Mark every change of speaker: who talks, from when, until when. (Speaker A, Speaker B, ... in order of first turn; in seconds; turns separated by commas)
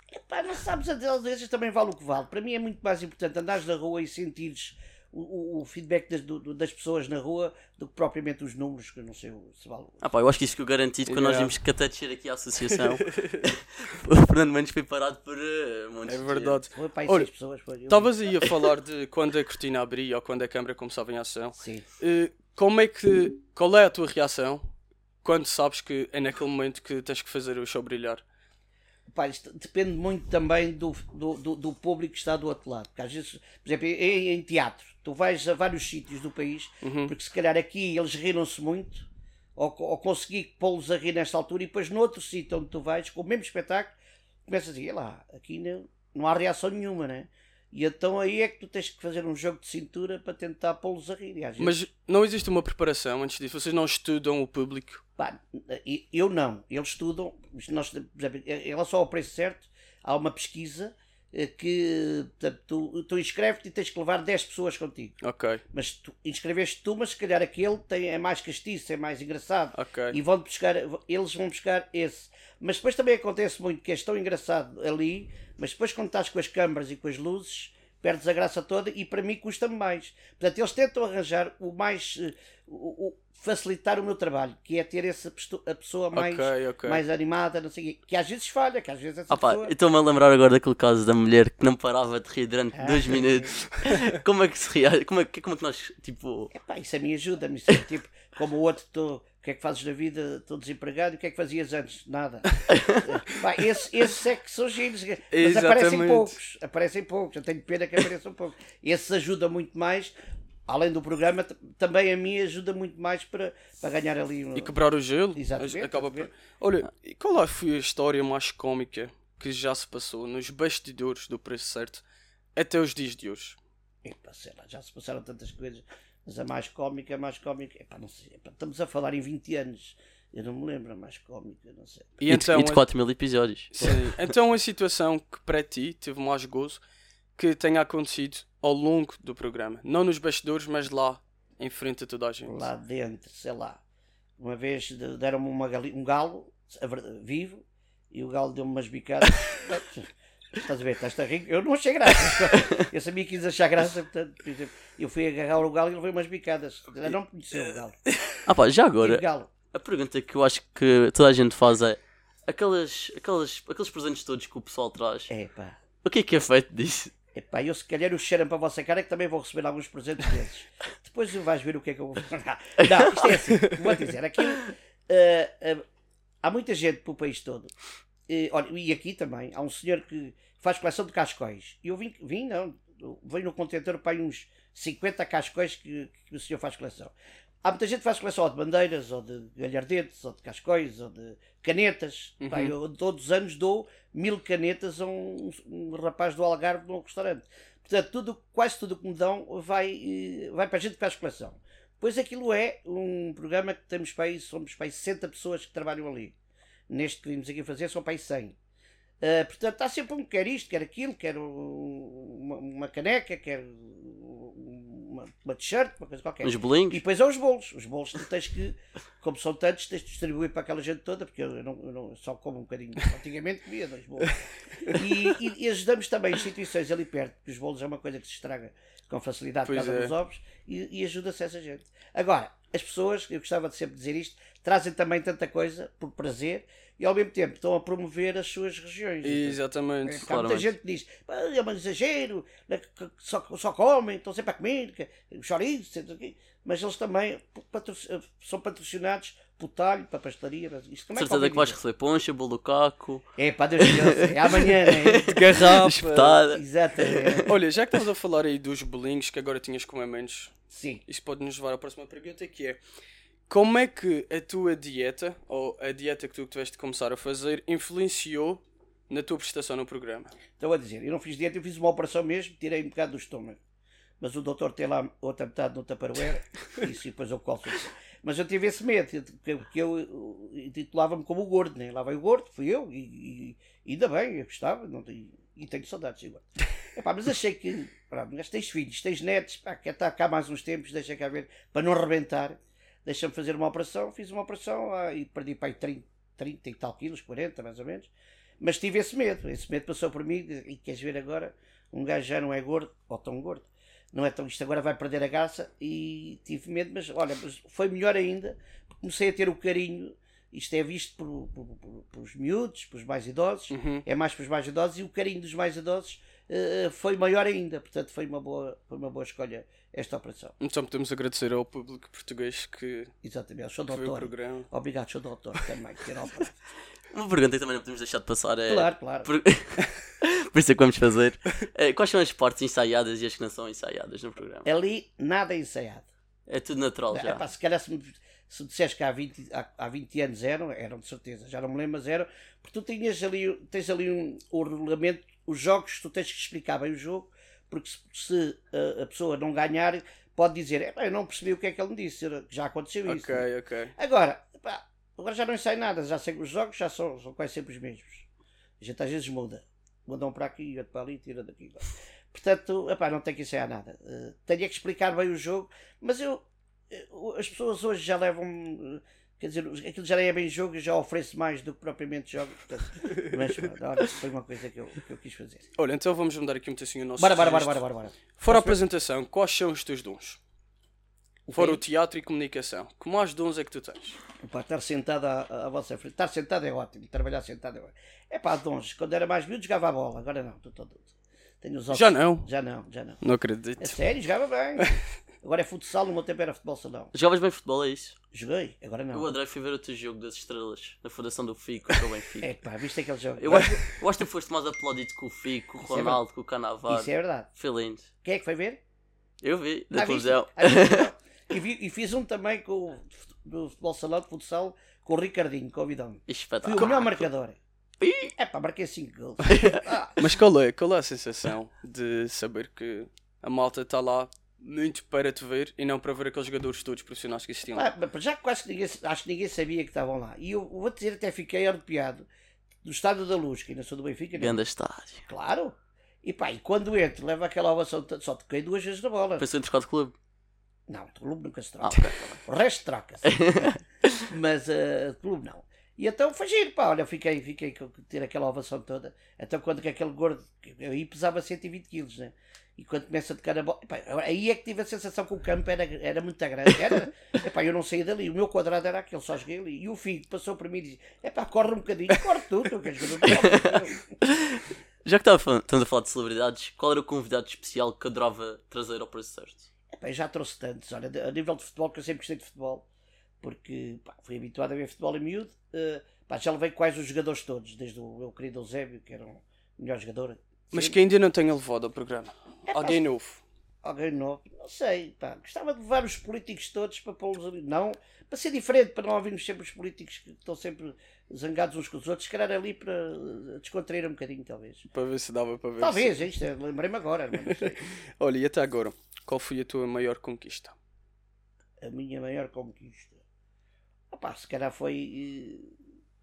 Speaker A: 0.1-10.0, Speaker B: 10.0-16.6, Speaker C: 11.1-11.6, Speaker C: 12.7-13.5, Speaker C: 16.1-17.3, Speaker A: 16.7-18.1, Speaker C: 17.9-24.6, Speaker A: 21.6-21.9, Speaker C: 25.2-28.2, Speaker A: 29.1-44.0, Speaker C: 36.8-37.1, Speaker A: 44.5-51.8, Speaker C: 51.6-55.0, Speaker A: 55.2-65.2, Speaker C: 65.2-65.6, Speaker A: 65.7-89.7, Speaker C: 69.7-70.2, Speaker C: 86.1-87.0, Speaker B: 89.3-96.5, Speaker A: 92.8-93.5, Speaker A: 96.5-110.2, Speaker B: 102.7-103.0, Speaker C: 105.3-106.4, Speaker A: 110.7-114.8, Speaker C: 114.5-122.0, Speaker A: 115.3-116.3, Speaker C: 122.6-123.6, Speaker A: 124.0-132.2, Speaker C: 132.2-132.9, Speaker B: 132.3-133.9, Speaker C: 133.7-136.8, Speaker A: 133.8-134.1, Speaker C: 137.4-142.7, Speaker A: 142.5-143.8, Speaker A: 144.4-158.0, Speaker B: 158.5-165.3, Speaker A: 159.0-159.5, Speaker A: 165.3-165.8, Speaker B: 166.0-167.1, Speaker A: 167.3-175.8, Speaker B: 172.8-173.3, Speaker A: 176.4-177.7, Speaker A: 178.3-206.3, Speaker C: 192.4-192.7, Speaker A: 206.9-208.6, Speaker A: 209.2-251.8, Speaker B: 216.4-217.0, Speaker C: 229.7-230.1, Speaker C: 239.2-240.3, Speaker B: 240.2-240.7, Speaker B: 251.2-253.2, Speaker A: 253.4-257.5, Speaker B: 253.8-257.4, Speaker C: 255.4-256.4, Speaker C: 257.5-260.5, Speaker A: 260.7-261.0, Speaker C: 261.1-262.8, Speaker C: 263.5-270.3, Speaker A: 270.6-273.6, Speaker A: 274.2-320.6, Speaker C: 313.7-314.0, Speaker C: 320.6-323.1, Speaker A: 323.2-326.6, Speaker C: 323.9-324.7, Speaker B: 327.1-334.7, Speaker A: 328.7-329.3, Speaker A: 334.7-336.1, Speaker B: 336.5-337.4, Speaker A: 337.1-358.3, Speaker C: 353.1-353.9, Speaker A: 358.8-375.7, Speaker C: 375.8-377.8, Speaker A: 377.2-378.8, Speaker C: 378.4-380.4, Speaker A: 381.5-381.8, Speaker C: 381.5-384.2, Speaker A: 384.4-391.1, Speaker A: 391.6-393.2, Speaker C: 391.9-392.5, Speaker C: 393.2-394.0, Speaker A: 393.8-394.9, Speaker A: 395.4-397.1, Speaker B: 397.1-398.2, Speaker A: 398.3-399.3, Speaker B: 399.1-402.5, Speaker A: 402.4-403.8, Speaker B: 403.4-408.1, Speaker C: 403.5-403.8, Speaker A: 405.9-406.2, Speaker A: 406.9-407.5, Speaker A: 408.2-408.8, Speaker B: 409.4-411.1, Speaker A: 409.9-417.6, Speaker B: 416.3-417.3, Speaker B: 418.0-418.3, Speaker A: 418.4-420.2, Speaker B: 419.5-419.8, Speaker C: 420.2-427.9, Speaker A: 427.8-432.3, Speaker A: 432.8-434.6, Speaker B: 434.4-435.3, Speaker A: 435.3-439.5, Speaker B: 439.4-440.1, Speaker A: 440.9-443.7, Speaker B: 441.8-442.4, Speaker B: 443.2-444.1, Speaker A: 444.3-464.2, Speaker B: 463.3-469.7, Speaker A: 469.9-472.9, Speaker A: 473.4-481.0, Speaker C: 480.7-483.4, Speaker A: 482.7-483.0, Speaker A: 483.8-494.9, Speaker C: 494.9-496.2, Speaker A: 495.8-497.8, Speaker C: 497.4-500.8, Speaker A: 501.8-503.2, Speaker A: 504.1-505.8